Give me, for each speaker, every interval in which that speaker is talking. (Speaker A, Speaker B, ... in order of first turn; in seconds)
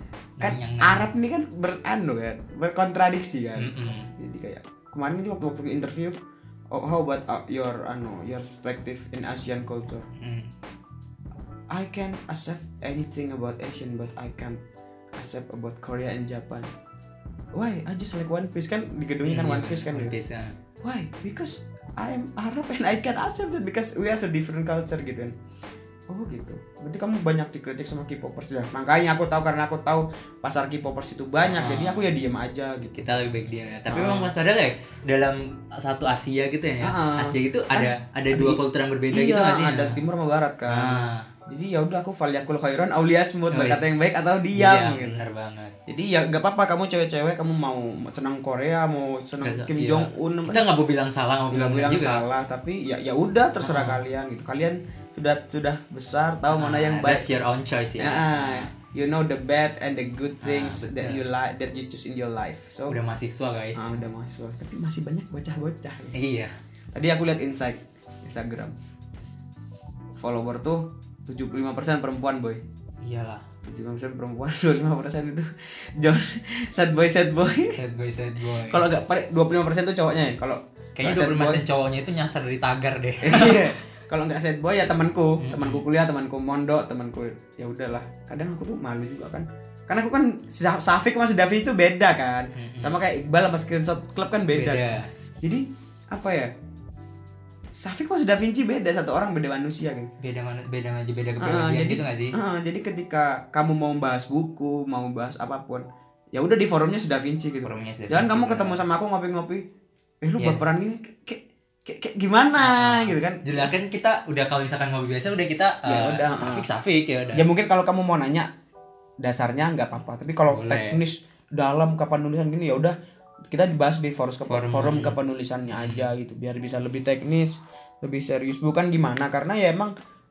Speaker A: 0.4-1.1, 3.6-4.1, 10.2-10.5, 19.2-20.6, 31.4-32.1, 32.9-40.0, 40.7-41.3, 43.5-45.7, 49.4-52.2, 53.6-54.0, 56.5-58.7, 60.4-61.2, 62.9-63.9, 66.1-66.5, 73.0-73.4, 77.8-78.9, 81.0-83.8, 85.4-85.9, 92.6-93.0, 94.5-95.1, 100.2-102.4, 107.6-108.8, 110.4-110.6, 112.6-117.5, 120.5-121.0, 124.5-125.2, 125.7-126.1
Speaker B: 0.4-6.2, 6.7-10.1, 11.7-14.6, 15.2-16.7, 17.6-20.2, 20.8-25.3, 26.1-33.0, 33.9-34.3, 36.8-45.2, 45.9-50.7, 51.5-57.3, 58.0-63.0, 63.8-66.2, 66.9-68.7, 70.2-72.6, 73.7-77.8, 78.4-81.6, 83.2-96.5, 97.7-100.1, 101.4-109.7, 110.2-113.7, 115.8-116.7, 117.3-118.5, 119.2-123.0, 123.5-129.9